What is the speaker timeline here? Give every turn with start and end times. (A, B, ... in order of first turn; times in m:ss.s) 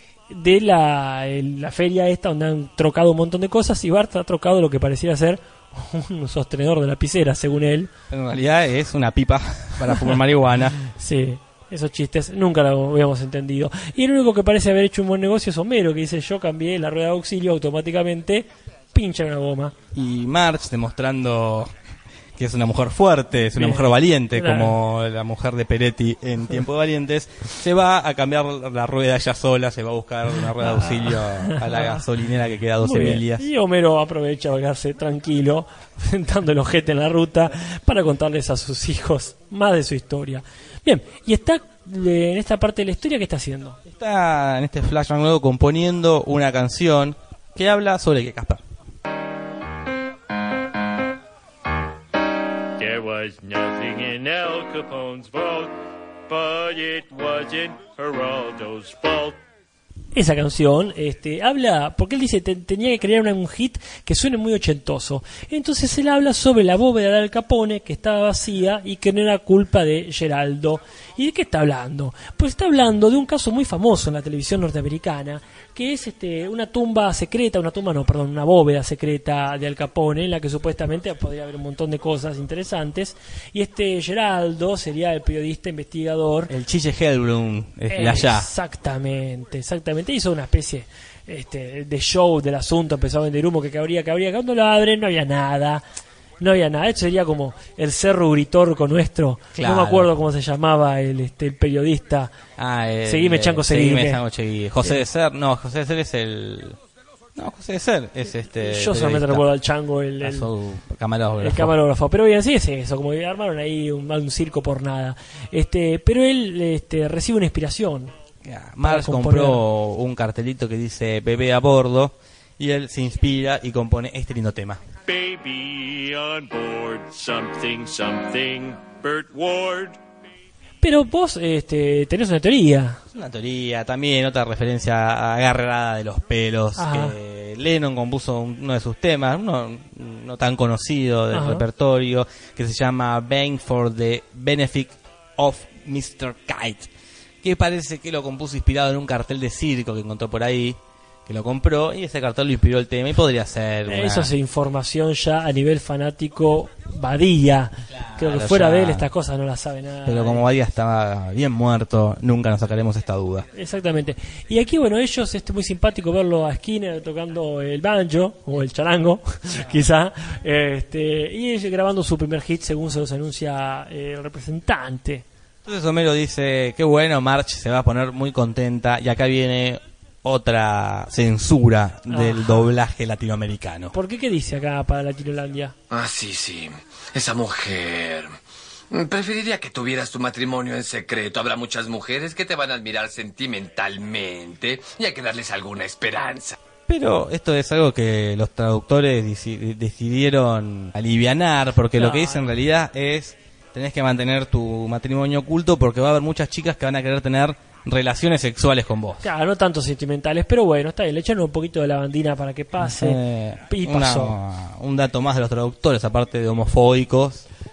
0:00.3-0:07.9 A
0:08.1-0:10.8 B
0:10.9-0:19.7 A
0:19.9-0:21.7 B
0:22.4-0:33.5 B
0:23.6-0:24.8 A
0:30.6-0:32.0 A
0:32.8-0:43.8 A
0:43.8-0:48.6 B
0:52.8-0:55.8 C
0:56.3-0:59.4 C
1:00.1-1:26.5 A
1:26.5-1:28.5 B
1:27.9-1:35.8 A
1:36.4-1:42.3 A
1:39.6-1:40.1 B
1:42.6-1:46.8 B
1:43.0-1:44.2 A
1:47.4-1:49.5 B
1:48.6-1:50.5 A
1:50.2-1:51.7 B
1:51.4-1:58.1 A
1:58.4-2:04.8 B
1:58.8-1:59.6 A
2:05.1-2:10.0 C
2:10.8-2:13.0 A
2:13.1-2:26.9 B
2:16.8-2:17.1 A
2:21.3-2:21.6 A
2:27.4-2:34.3 B
2:33.9-2:40.4 A
2:37.9-2:39.1 B
2:40.1-2:43.5 B
2:43.5-2:55.2 A
2:55.6-3:03.9 B
3:02.1-3:02.7 A
3:03.9-3:05.7 A
3:05.9-3:08.3 D
3:08.9-3:16.6 D
3:16.9-3:29.3 B
3:22.0-3:22.6 A
3:29.2-3:34.4 A
3:32.8-3:37.4 B